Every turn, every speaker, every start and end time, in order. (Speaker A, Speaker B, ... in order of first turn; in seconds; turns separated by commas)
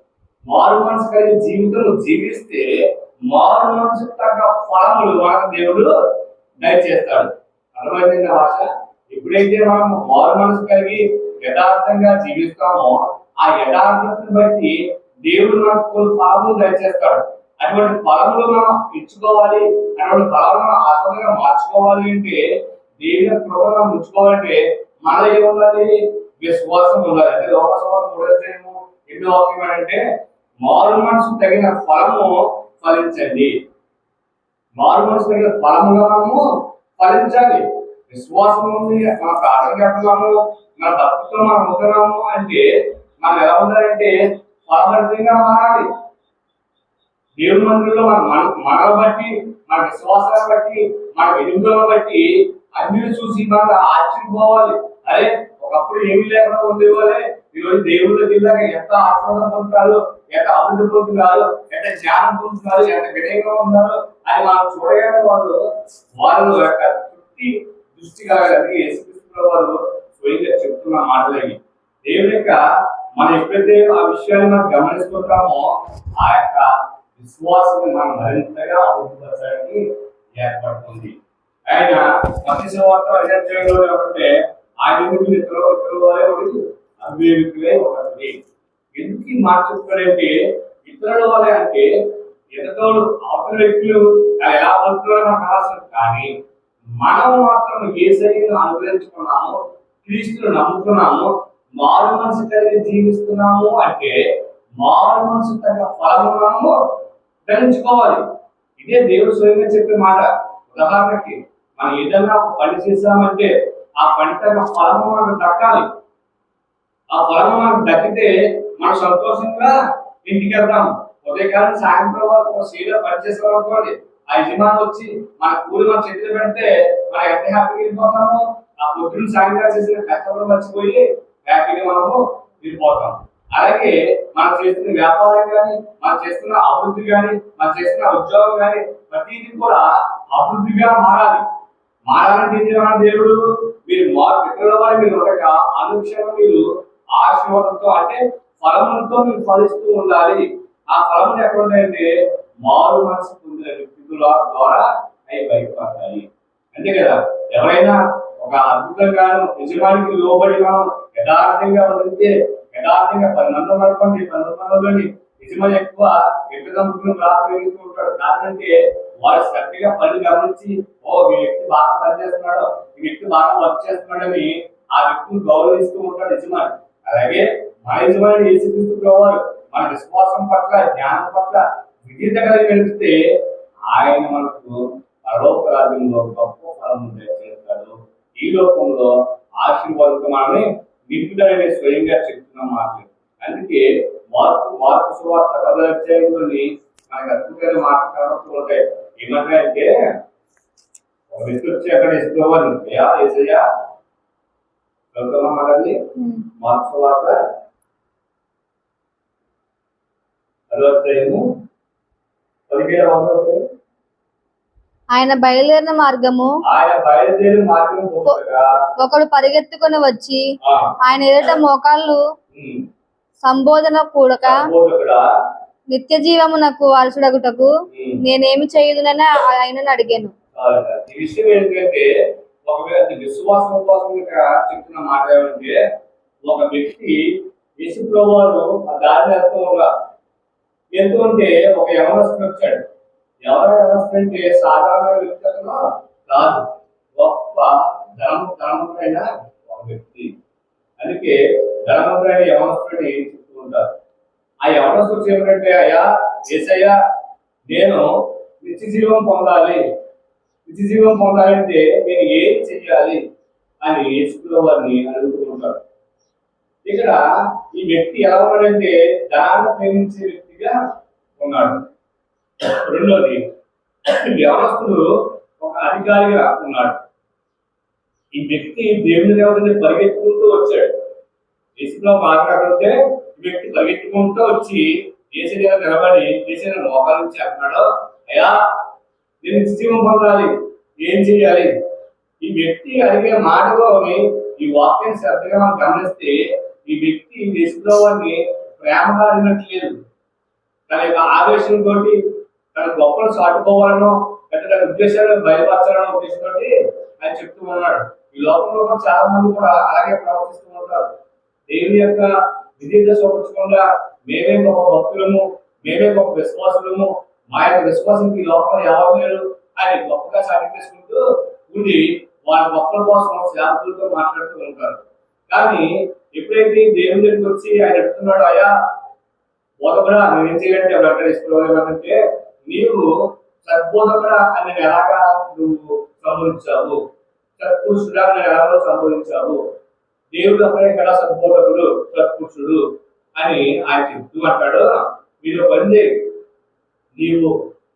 Speaker A: 0.5-5.9, Speaker A: 6.6-22.4, Speaker A: 23.0-30.0, Speaker A: 30.6-33.5, Speaker A: 34.8-36.4, Speaker A: 37.0-42.6, Speaker A: 43.2-44.1, Speaker A: 44.7-45.9, Speaker A: 47.4-65.6, Speaker A: 66.2-72.6, Speaker A: 73.2-79.8, Speaker A: 80.4-81.1, Speaker A: 81.7-84.3, Speaker A: 84.8-88.4, Speaker A: 89.0-91.9, Speaker A: 92.5-96.3, Speaker A: 97.0-104.2, Speaker A: 104.8-106.8, Speaker A: 107.5-108.2, Speaker A: 108.8-115.9, Speaker A: 117.1-141.5, Speaker A: 142.1-146.6, Speaker A: 147.2-152.1, Speaker A: 152.6-199.9, Speaker A: 201.3-203.6, Speaker A: 205.1-206.0, Speaker A: 206.6-207.4, Speaker A: 210.7-211.4, Speaker A: 212.7-213.6, Speaker B: 215.1-216.5, Speaker A: 216.6-218.7, Speaker B: 219.0-220.4, Speaker A: 220.6-220.9, Speaker B: 221.0-222.2, Speaker A: 222.5-222.9, Speaker B: 223.4-224.6, Speaker A: 224.4-225.3, Speaker B: 225.9-227.7, Speaker A: 227.9-228.2, Speaker B: 228.2-230.3, Speaker A: 230.6-232.1, Speaker A: 232.7-235.8, Speaker A: 236.5-239.9, Speaker A: 240.9-242.9, Speaker A: 243.4-250.3, Speaker A: 251.0-253.9, Speaker A: 254.7-256.9, Speaker A: 257.7-258.1, Speaker A: 258.6-259.8, Speaker A: 260.7-263.2, Speaker A: 263.8-265.8, Speaker A: 266.9-270.8, Speaker A: 271.4-271.9, Speaker A: 272.6-273.5, Speaker A: 274.1-277.0, Speaker A: 278.4-280.9, Speaker A: 281.8-288.6, Speaker A: 289.4-291.7, Speaker A: 292.4-300.0, Speaker A: 300.9-302.2, Speaker A: 302.8-311.1, Speaker A: 311.7-328.7, Speaker A: 329.8-333.1, Speaker A: 333.6-337.0, Speaker A: 337.6-339.6, Speaker A: 340.3-342.8, Speaker A: 343.4-346.3, Speaker A: 347.2-347.5